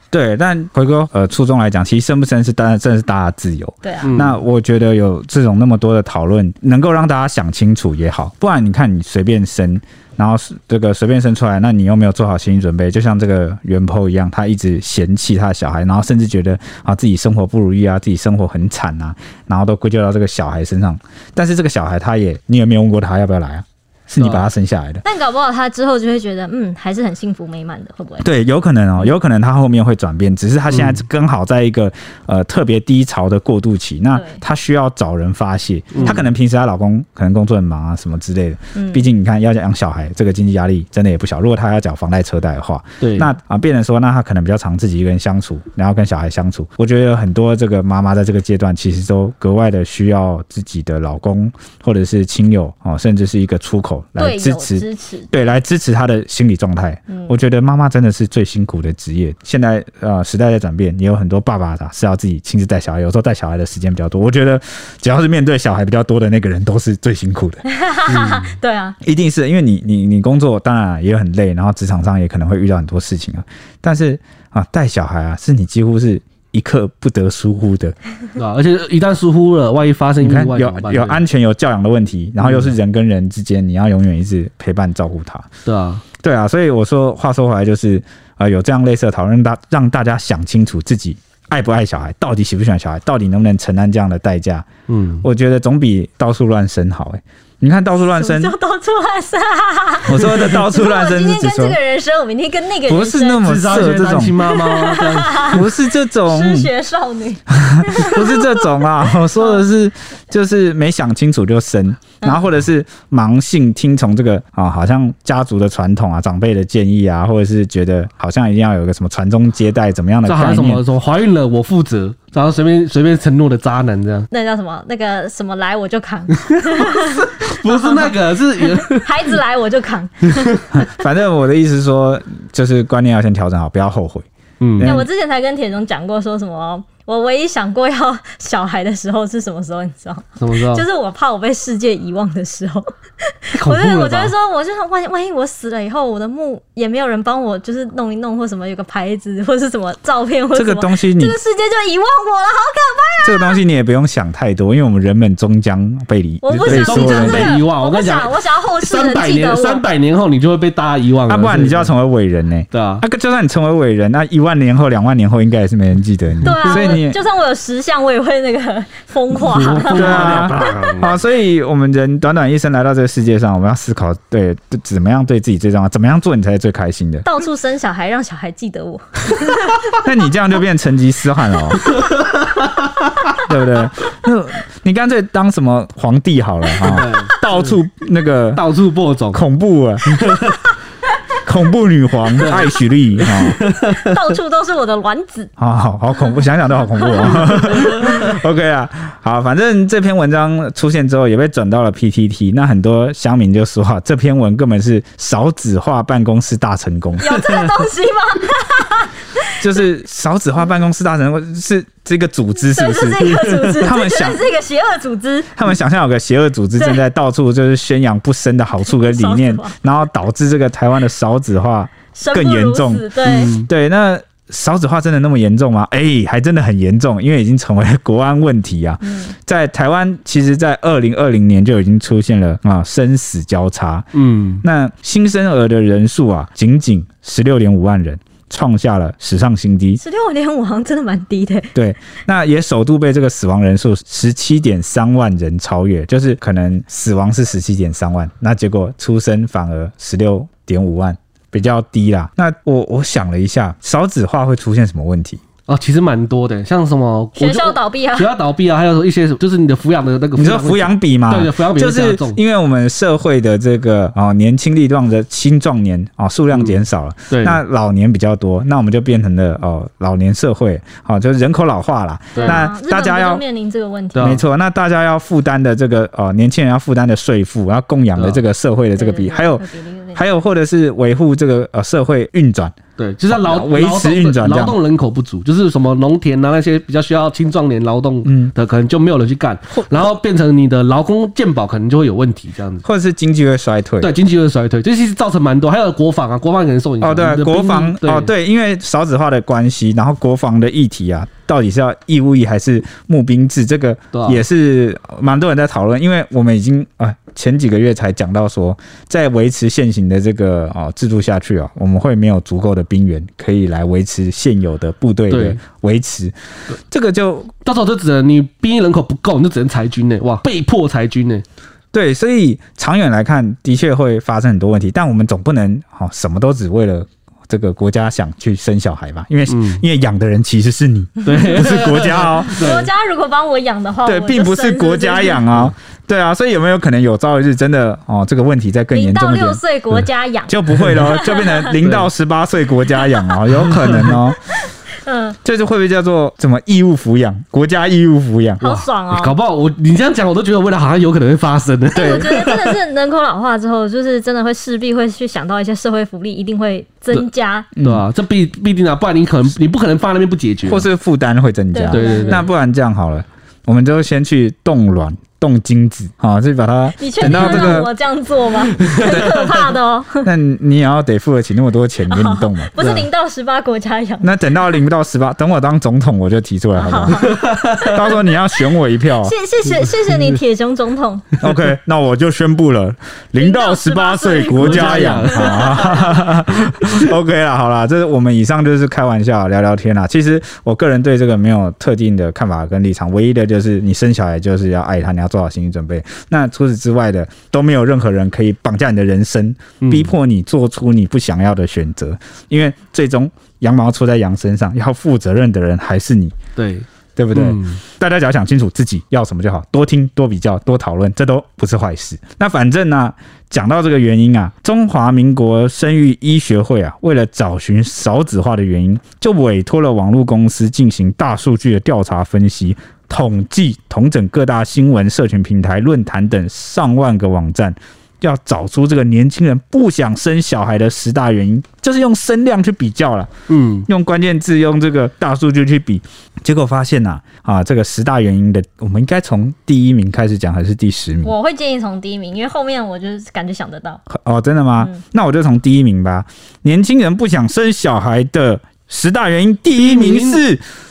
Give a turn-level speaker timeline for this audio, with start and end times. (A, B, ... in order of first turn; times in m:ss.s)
0:00.1-0:25.0 A
0:03.8-0:04.1 B
0:04.0-0:04.4 C
0:24.2-0:24.5 C
0:25.0-0:28.2 B
0:28.2-1:07.6 A
0:30.7-0:31.0 C
0:34.1-0:34.4 B
0:35.9-0:36.2 C
0:38.7-0:39.0 B
0:43.0-0:43.3 C
0:54.2-0:55.3 B
1:07.6-1:09.0 B
1:08.1-1:08.5 C
1:09.0-1:18.0 A
1:18.4-1:21.2 C
1:20.2-1:25.5 A
1:22.4-1:22.7 C
1:25.6-1:26.0 C
1:26.2-1:34.7 A
1:34.9-1:35.2 C
1:35.2-1:38.5 A
1:38.0-1:45.6 B
1:40.0-1:41.8 A
1:42.9-1:44.4 A
1:43.4-1:45.6 C
1:45.5-1:46.7 A
1:46.3-1:49.6 B
1:47.5-2:00.8 A
2:00.2-2:04.3 C
2:04.3-2:10.6 B
2:06.5-2:09.3 C
2:10.3-2:10.6 C
2:10.7-2:15.0 A
2:14.6-2:15.0 C
2:14.8-2:33.6 B
2:20.4-2:20.8 C
2:23.5-2:24.3 C
2:30.5-2:31.4 A
2:33.2-2:37.6 A
2:36.4-2:39.8 B
2:36.6-2:41.9 C
2:41.3-2:47.2 A
2:42.7-2:43.0 C
2:46.4-2:50.8 B
2:46.5-2:46.9 C
2:49.4-2:51.2 C
2:49.9-2:57.2 A
2:57.2-3:00.0 B
2:59.9-3:02.0 A
3:01.9-3:03.1 C
3:03.4-3:08.6 A
3:06.8-3:07.8 C
3:08.5-3:09.4 C
3:09.3-3:10.4 A
3:10.2-3:10.5 C
3:11.4-3:13.6 A
3:12.4-3:14.2 C
3:13.7-3:15.5 B
3:15.6-3:27.3 A
3:16.9-3:18.0 B
3:17.8-3:18.2 C
3:27.2-3:29.5 B
3:27.3-3:27.7 C
3:29.6-3:34.4 A
3:32.6-3:35.5 B
3:35.5-3:54.1 A
3:38.8-3:39.7 B
3:42.1-3:43.5 B
3:43.2-3:43.7 C
3:49.0-3:49.3 B
3:54.1-3:54.6 C
3:54.6-4:00.0 A
4:00.0-4:01.7 B
4:01.7-4:15.4 A
4:15.7-4:22.4 C
4:17.4-4:18.3 B
4:20.4-4:33.4 A
4:26.5-4:27.6 C
4:32.3-4:32.7 C
4:32.4-4:34.4 B
4:34.1-4:34.4 C
4:34.2-4:39.6 A
4:38.2-4:38.4 C
4:39.0-4:40.2 B
4:40.1-4:42.7 A
4:43.0-4:52.8 C
4:43.3-4:44.8 A
4:48.2-4:48.5 A
4:52.8-4:54.1 A
4:54.0-4:58.3 C
4:57.0-5:16.3 A
5:04.1-5:04.4 C
5:15.3-5:15.6 C
5:16.9-5:17.5 A
5:17.6-5:21.4 C
5:21.9-5:32.6 A
5:29.5-5:29.8 C
5:31.2-5:32.9 C
5:32.5-5:35.4 B
5:34.0-5:39.6 A
5:38.9-5:41.7 B
5:40.5-5:44.4 A
5:41.8-5:42.1 C
5:43.0-5:43.3 B
5:43.6-5:44.2 C
5:45.0-5:45.4 B
5:45.4-5:48.8 A
5:48.6-5:49.4 B
5:49.1-5:52.8 C
5:51.9-5:57.7 B
5:51.9-5:52.2 A
5:57.8-5:58.0 A
5:57.8-6:00.9 C
6:00.6-6:07.9 A
6:01.7-6:02.5 B
6:01.9-6:02.5 C
6:07.0-6:10.3 B
6:07.3-6:07.8 C
6:08.8-6:09.4 C
6:09.1-6:09.4 A
6:10.2-6:12.7 A
6:12.1-6:14.8 B
6:12.8-6:13.1 C
6:14.2-6:19.3 A
6:16.8-6:21.3 B
6:17.2-6:18.0 C
6:20.1-6:20.4 C
6:21.4-6:46.4 A
6:23.4-6:26.2 B
6:24.6-6:26.2 C
6:39.8-6:40.1 C
6:46.6-6:47.8 C
6:47.2-7:13.3 A
7:13.5-7:13.9 C
7:13.9-7:21.3 A
7:21.2-7:24.0 B
7:24.1-7:30.6 A
7:29.8-7:30.4 C